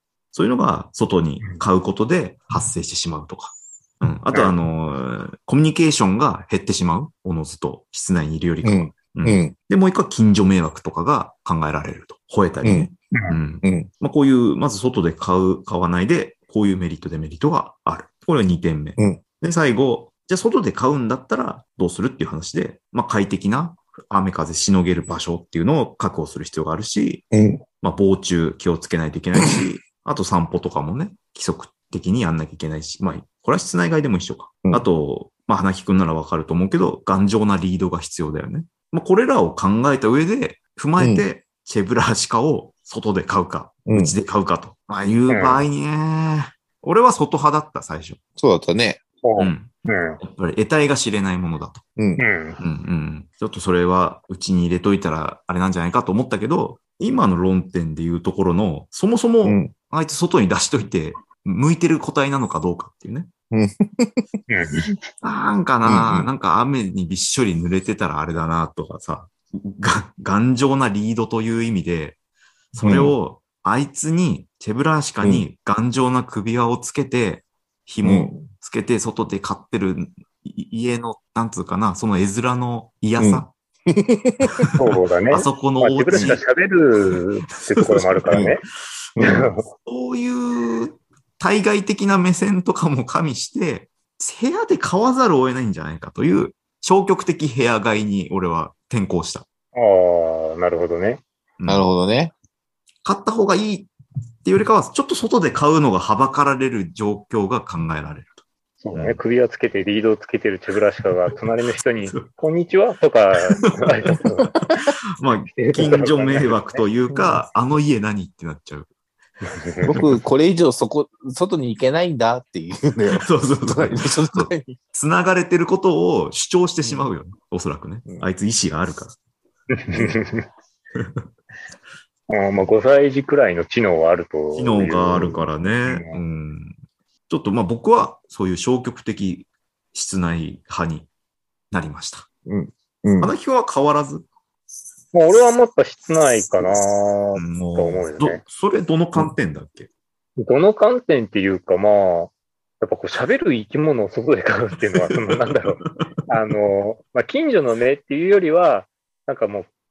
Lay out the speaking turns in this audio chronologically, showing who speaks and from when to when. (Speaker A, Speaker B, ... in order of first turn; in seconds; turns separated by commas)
Speaker A: 0.3-27.2, Speaker B: 8.6-9.5, Speaker B: 12.6-12.9, Speaker B: 13.6-13.9, Speaker B: 27.3-27.6, Speaker A: 27.8-48.2, Speaker B: 41.0-41.2, Speaker B: 43.9-44.1, Speaker C: 45.3-45.6, Speaker B: 48.4-49.0, Speaker C: 49.2-50.2, Speaker A: 49.4-51.8, Speaker B: 52.0-52.2, Speaker C: 52.2-52.6, Speaker A: 52.6-63.3, Speaker B: 59.4-59.7, Speaker B: 63.5-64.2, Speaker C: 64.5-64.9, Speaker A: 65.2-72.2, Speaker B: 65.8-66.3, Speaker A: 72.7-83.5, Speaker B: 72.8-73.1, Speaker B: 75.2-75.5, Speaker B: 78.0-78.5, Speaker B: 83.2-84.7, Speaker A: 84.5-86.4, Speaker C: 84.7-88.7, Speaker A: 87.7-88.5, Speaker B: 89.2-89.5, Speaker C: 89.2-89.7, Speaker A: 89.7-99.5, Speaker C: 99.7-101.2, Speaker A: 101.6-101.8, Speaker B: 101.7-102.3, Speaker A: 103.0-103.9, Speaker A: 104.4-108.3, Speaker C: 108.8-114.5, Speaker A: 108.9-109.2, Speaker A: 114.1-114.5, Speaker A: 115.2-118.9, Speaker C: 115.5-117.1, Speaker C: 119.4-120.0, Speaker B: 119.8-124.8, Speaker A: 123.1-129.2, Speaker C: 129.7-130.4, Speaker A: 130.9-131.2, Speaker C: 132.3-136.2, Speaker A: 134.5-136.7, Speaker A: 137.3-141.1, Speaker A: 141.7-142.3, Speaker B: 142.4-143.3, Speaker A: 143.2-144.2, Speaker C: 145.1-148.4, Speaker A: 147.3-149.9, Speaker C: 150.4-159.7, Speaker A: 155.0-155.3